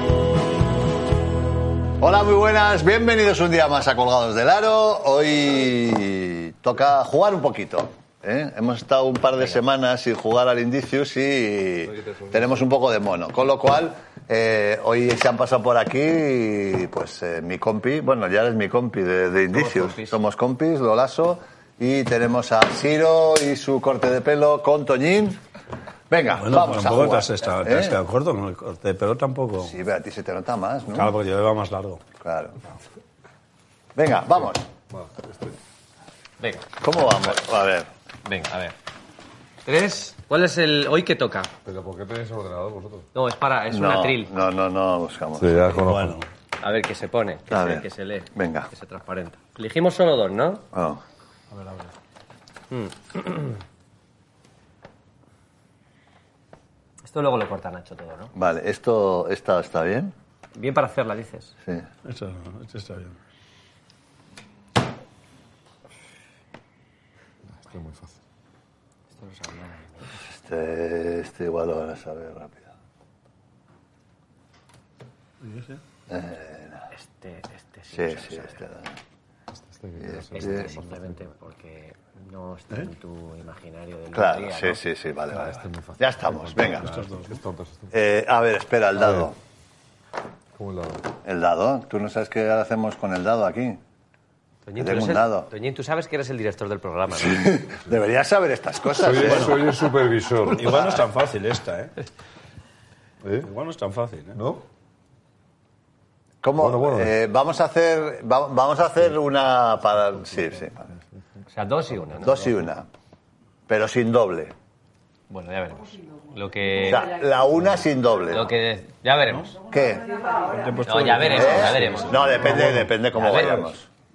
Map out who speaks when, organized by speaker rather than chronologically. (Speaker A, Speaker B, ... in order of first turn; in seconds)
Speaker A: 2.0-25.4, 26.1-28.0, 29.6-31.1, 32.2-32.6, 34.0-34.6, 36.8-37.9, 43.7-45.6, 47.5-48.7, 50.7-51.0, 58.3-60.1, 70.2-72.7, 76.1-76.9, 77.9-78.9, 80.0-80.7, 84.1-86.9, 87.9-89.4, 91.2-93.8, 94.8-95.5, 97.1-99.6, 106.4-110.8, 112.2-112.9, 113.7-114.5, 116.8-118.5, 119.7-120.1, 121.3-123.9
Speaker B: 11.9-12.5, 34.9-35.5, 41.6-43.1, 45.4-46.2, 67.5-68.2, 79.5-81.2, 85.3-88.0, 89.0-89.3, 90.5-91.1, 98.9-100.9, 103.2-103.5, 104.3-104.6, 106.6-107.1, 122.4-122.9
Speaker C: 19.5-20.2, 36.4-36.7, 38.2-38.7, 39.6-41.5, 43.1-44.3, 46.6-50.6, 52.7-53.5, 57.0-58.3, 60.5-61.5, 69.1-70.1, 76.9-78.6, 80.3-84.8, 94.6-97.5, 111.5-112.5, 115.3-117.1, 118.3-119.5, 120.8-122.6, 123.1-123.7
Speaker D: 26.3-29.7, 30.9-32.0, 45.7-46.2, 51.5-51.9, 62.0-63.2, 75.4-75.8, 86.7-87.4, 99.2-99.7, 100.5-101.9, 103.4-104.4, 120.4-122.8